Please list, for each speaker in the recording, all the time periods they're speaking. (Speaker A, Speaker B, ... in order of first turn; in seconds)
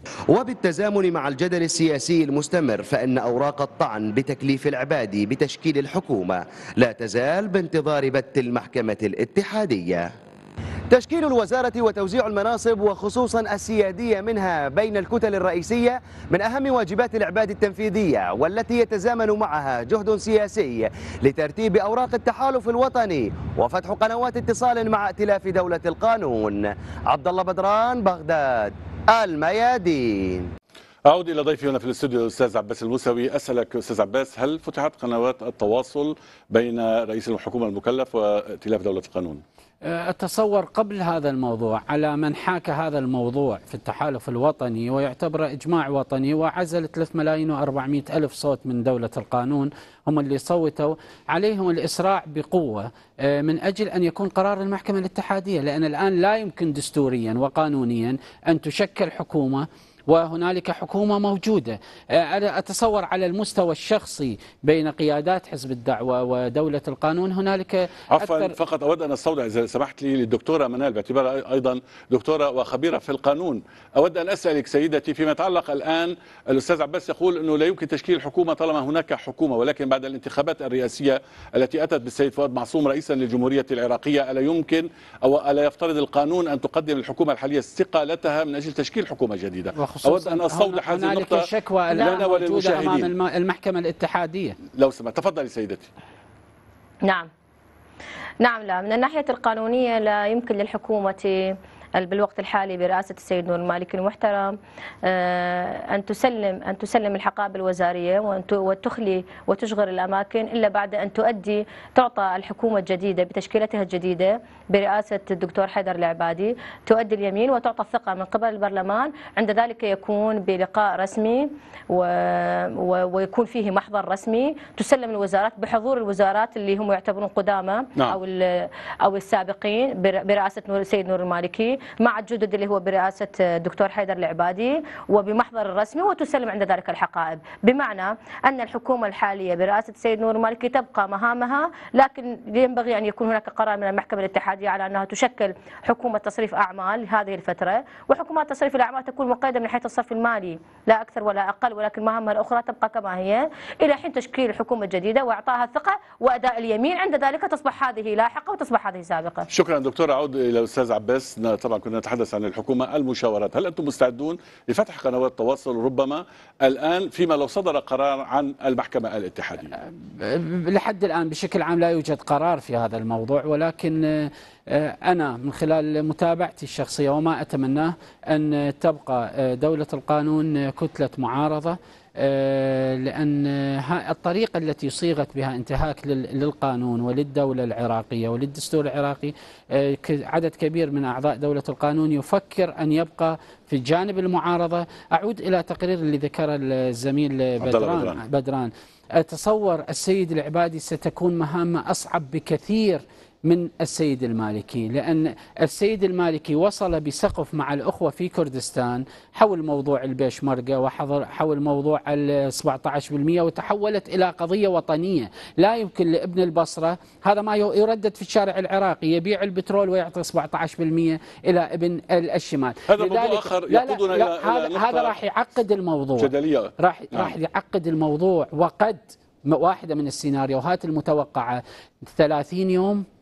Speaker A: 0.3-10.1, 10.9-30.5
Speaker B: 31.1-39.4, 68.1-93.1, 94.7-95.9, 159.5-169.7, 197.6-198.2, 222.9-225.2, 226.2-227.3
Speaker C: 39.9-68.6, 89.8-94.6, 169.8-233.1
Speaker D: 98.4-159.5